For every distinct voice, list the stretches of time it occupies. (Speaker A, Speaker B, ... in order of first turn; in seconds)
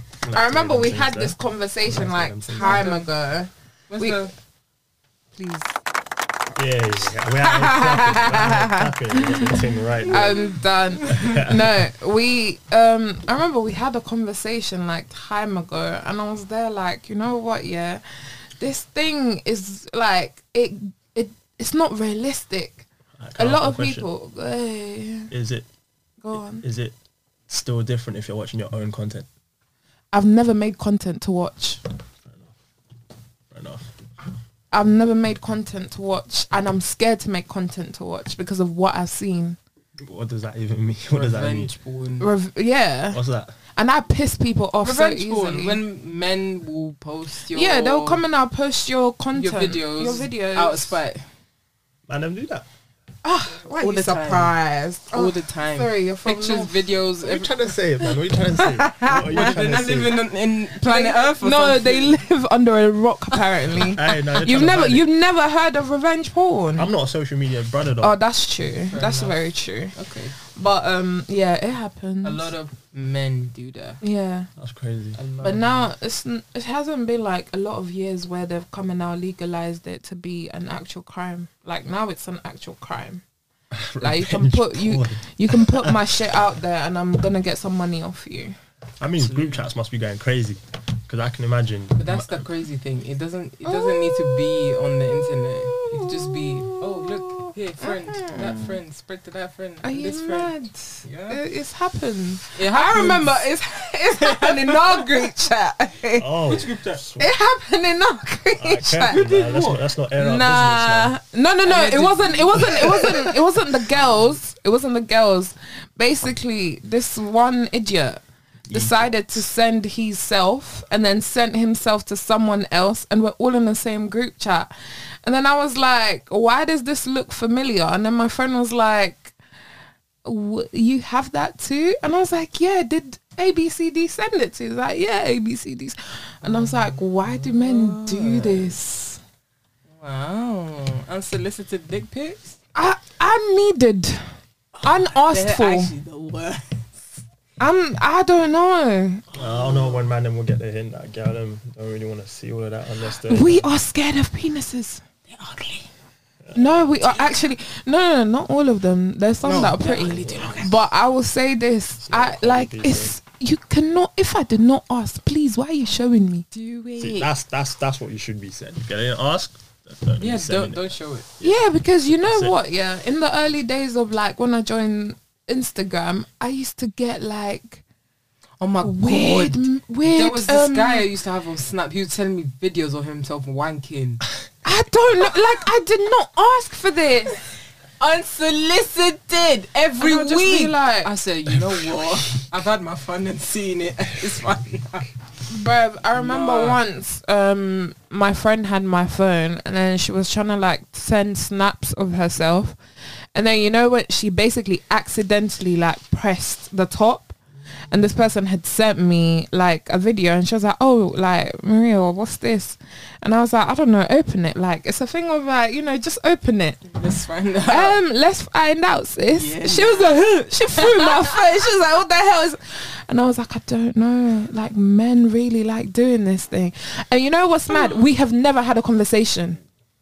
Speaker A: 0.2-2.9, 6.5-10.4, 11.1-11.8, 23.2-24.1, 25.3-25.7, 26.4-26.9, 27.5-29.3, 32.2-32.5, 33.5-33.9, 40.0-41.7, 43.1-43.5, 52.1-52.6, 57.2-60.2, 63.8-65.1, 66.8-68.2, 74.6-75.2, 83.7-86.2, 89.0-92.5, 106.2-107.3, 108.6-111.1, 112.6-113.2, 118.7-119.2, 149.3-153.7, 156.5-156.9, 160.0-160.7, 162.0-163.1, 167.0-172.5
Speaker B: 0.3-4.3, 5.3-5.7, 7.4-22.9, 23.4-25.3, 26.2-26.6, 30.1-31.8, 34.7-39.6, 42.2-43.2, 43.7-45.8, 47.5-51.0, 53.2-56.8, 58.0-60.1, 60.8-66.9, 68.0-72.5, 74.0-74.5, 75.4-83.2, 84.0-88.6, 93.6-98.8, 99.8-106.3, 107.2-109.2, 110.2-124.7, 125.2-129.3, 130.2-139.2, 142.7-145.9, 147.6-149.2, 153.2-155.0, 156.5-167.2, 171.4-177.8, 178.8-181.1, 184.6-187.4, 190.0-191.1, 195.5-202.8, 203.3-207.3, 207.9-216.9, 217.7-229.6
Speaker C: 2.6-3.1, 3.9-4.3, 10.1-10.5, 41.1-42.3, 44.8-48.2, 49.3-51.2, 53.8-54.5, 55.1-57.6, 59.1-62.2, 68.9-70.3, 72.2-74.0, 75.2-75.9, 89.2-89.6, 92.0-100.5, 101.0-101.4, 102.5-103.4, 104.2-105.1, 106.5-107.0, 109.1-109.8, 111.6-113.3, 136.4-138.8, 139.9-142.6, 144.8-147.0, 155.3-155.8, 159.4-160.7, 170.2-171.3, 178.6-184.2, 188.0-195.1, 196.1-196.8, 216.9-218.0, 219.3-221.3, 227.7-228.0